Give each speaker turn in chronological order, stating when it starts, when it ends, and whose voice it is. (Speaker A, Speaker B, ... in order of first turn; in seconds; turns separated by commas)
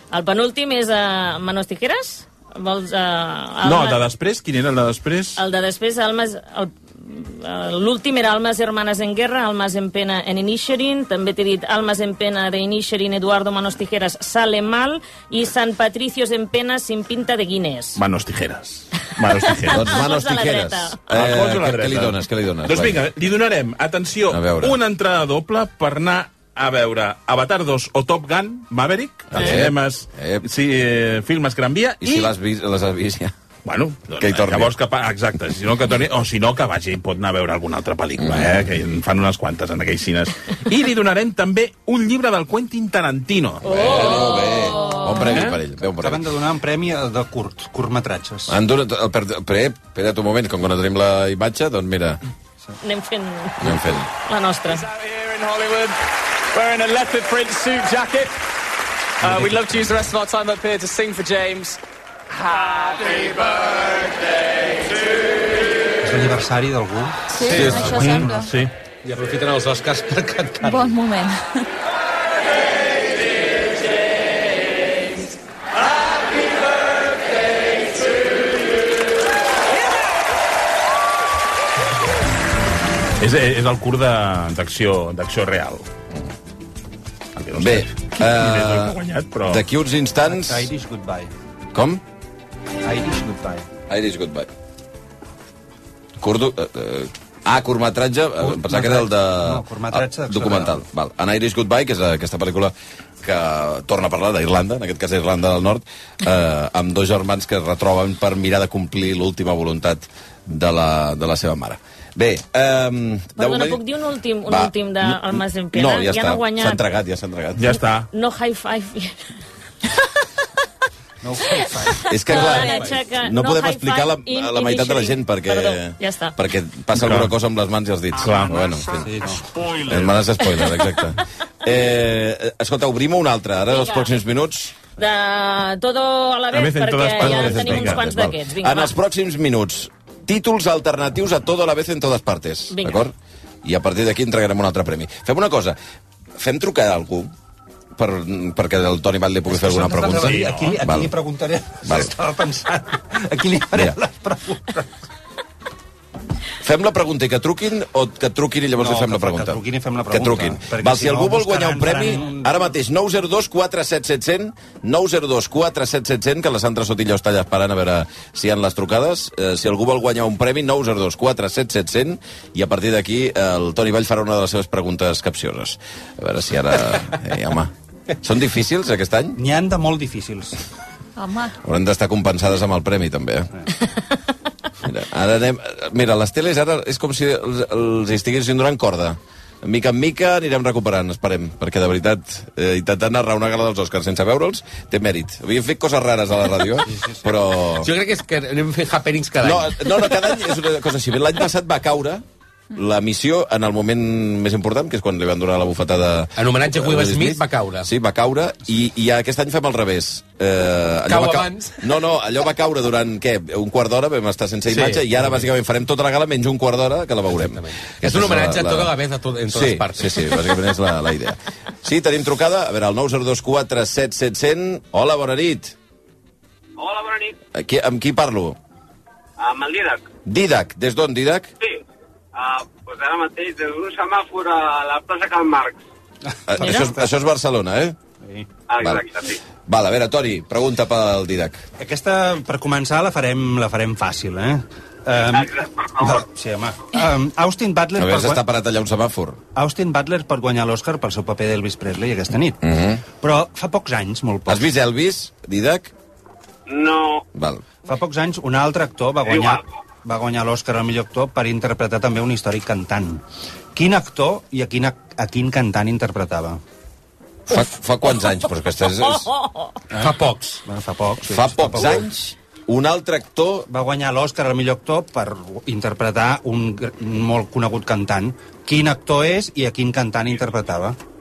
Speaker A: 0.1-4.0, Speaker B: 3.6-5.4, Speaker A: 5.4-18.0, Speaker B: 17.9-20.0, Speaker A: 19.6-21.0, Speaker C: 19.7-23.0, Speaker B: 21.1-32.3, Speaker C: 24.3-24.8, Speaker C: 29.3-30.4, Speaker C: 32.0-33.3, Speaker B: 33.6-44.1, Speaker C: 34.2-34.7, Speaker C: 38.2-38.7, Speaker A: 43.6-44.8, Speaker C: 43.6-46.2, Speaker D: 44.2-45.5, Speaker E: 46.0-48.5, Speaker C: 48.5-52.2, Speaker A: 52.8-54.9, Speaker C: 53.6-54.1, Speaker F: 54.9-55.9, Speaker F: 56.5-58.3, Speaker F: 59.3-61.8, Speaker F: 62.4-63.7, Speaker E: 66.0-68.5, Speaker D: 67.3-68.5, Speaker G: 67.4-68.2, Speaker B: 68.0-68.7, Speaker G: 69.0-70.9, Speaker D: 70.6-71.7, Speaker B: 83.2-85.9, Speaker B: 87.3-89.6, Speaker C: 87.6-90.7, Speaker E: 90.2-91.3, Speaker C: 91.7-92.0, Speaker E: 92.8-93.7, Speaker C: 93.9-94.5, Speaker C: 96.2-113.8, Speaker E: 98.4-100.8, Speaker A: 113.4-116.8, Speaker C: 114.5-117.7, Speaker B: 117.6-118.1, Speaker A: 118.1-119.2, Speaker E: 121.2-122.0, Speaker C: 122.1-129.2, Speaker A: 122.2-126.3, Speaker G: 122.3-122.9, Speaker B: 126.9-127.3, Speaker B: 128.2-128.7, Speaker E: 129.0-129.5, Speaker C: 129.8-134.7, Speaker A: 133.7-134.1, Speaker A: 135.0-138.9, Speaker B: 136.5-138.1, Speaker C: 137.2-145.8, Speaker A: 142.7-143.0, Speaker C: 146.4-147.3, Speaker C: 147.9-151.1, Speaker E: 149.5-155.0, Speaker B: 150.2-150.8, Speaker C: 151.8-152.1, Speaker C: 156.6-179.4, Speaker E: 158.8-162.6, Speaker E: 179.3-180.6, Speaker D: 181.2-181.6, Speaker C: 181.6-183.5, Speaker C: 184.8-197.9, Speaker G: 197.8-199.9, Speaker C: 199.4-218.9, Speaker G: 206.3-207.9, Speaker G: 211.1-211.8, Speaker G: 214.7-215.5, Speaker G: 217.4-220.3, Speaker C: 219.5-225.7, Speaker H: 226.8-227.3, Speaker C: 227.5-228.6, Speaker H: 229.4-230.1, Speaker C: 230.2-231.5, Speaker H: 232.3-235.8, Speaker C: 236.5-237.9, Speaker E: 236.5-237.1, Speaker A: 236.6-236.9, Speaker E: 238.2-238.5, Speaker H: 238.7-239.4, Speaker C: 238.8-239.1, Speaker C: 239.7-241.7, Speaker E: 241.8-248.4, Speaker H: 245.3-246.2, Speaker C: 248.0-249.4, Speaker E: 249.5-252.6, Speaker C: 252.6-253.0, Speaker E: 253.1-254.6, Speaker C: 254.5-255.9, Speaker H: 256.7-257.2, Speaker C: 257.3-257.6, Speaker E: 257.8-263.2, Speaker H: 259.2-259.6, Speaker E: 263.7-266.6, Speaker C: 267.5-269.3, Speaker A: 269.2-269.7, Speaker G: 269.9-270.6, Speaker E: 270.6-272.1, Speaker C: 271.3-273.7, Speaker E: 273.7-281.0